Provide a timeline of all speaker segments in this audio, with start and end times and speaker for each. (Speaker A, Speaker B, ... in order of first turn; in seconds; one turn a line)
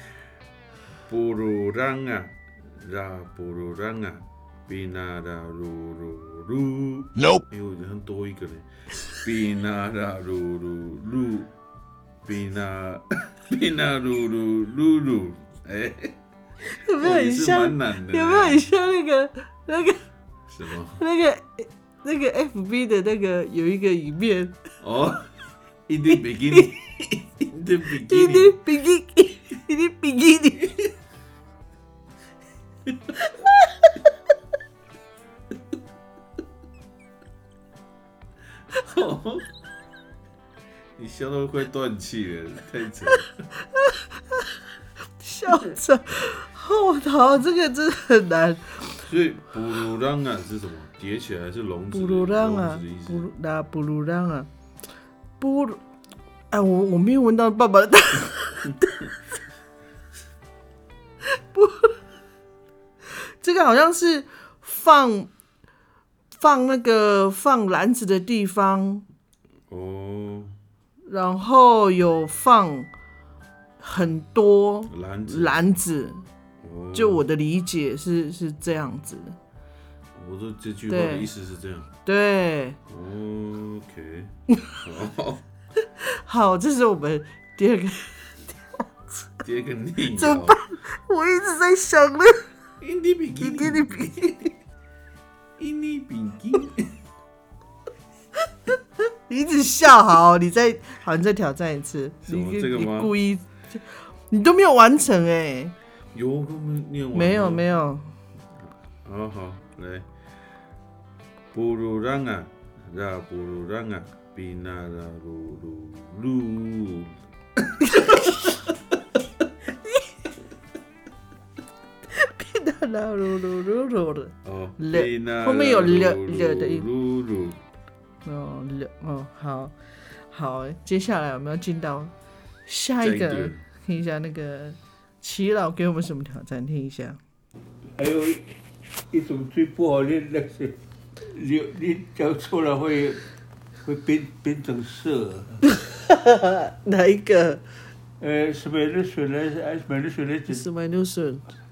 Speaker A: 1.1-11.5
Speaker A: 12.2-16.1
Speaker B: 16.6-20.0
Speaker A: 17.0-18.7
Speaker A: 20.5-21.0
Speaker B: 21.0-24.6
Speaker A: 24.8-25.3
Speaker A: 25.9-28.6
Speaker B: 28.1-30.8
Speaker A: 38.7-39.5
Speaker A: 41.0-43.3
Speaker B: 45.2-49.0
Speaker A: 49.0-53.3
Speaker B: 51.9-54.5
Speaker B: 55.4-55.8
Speaker B: 56.5-58.7
Speaker B: 61.3-61.9
Speaker B: 63.4-65.3
Speaker B: 66.4-69.0
Speaker A: 69.7-70.6
Speaker B: 71.1-72.9
Speaker B: 73.8-76.2
Speaker A: 74.9-75.6
Speaker A: 76.6-77.2
Speaker B: 76.9-79.3
Speaker A: 80.1-81.9
Speaker B: 80.9-81.3
Speaker B: 82.0-82.8
Speaker A: 82.9-85.4
Speaker B: 86.2-88.3
Speaker B: 88.8-89.3
Speaker A: 89.4-90.6
Speaker B: 90.1-92.5
Speaker A: 92.8-94.5
Speaker B: 93.4-94.3
Speaker A: 95.6-96.9
Speaker B: 99.3-105.7
Speaker A: 102.2-103.1
Speaker A: 106.1-107.7
Speaker B: 107.1-108.1
Speaker A: 108.6-110.1
Speaker A: 111.5-117.2
Speaker B: 117.8-118.3
Speaker B: 122.1-126.8
Speaker A: 124.4-127.6
Speaker B: 128.2-129.7
Speaker B: 130.3-132.1
Speaker B: 132.7-137.2
Speaker A: 133.0-133.6
Speaker C: 137.9-138.4
Speaker C: 139.1-143.2
Speaker C: 143.8-145.6
Speaker B: 146.1-147.6
Speaker C: 148.2-150.6
Speaker B: 150.5-151.5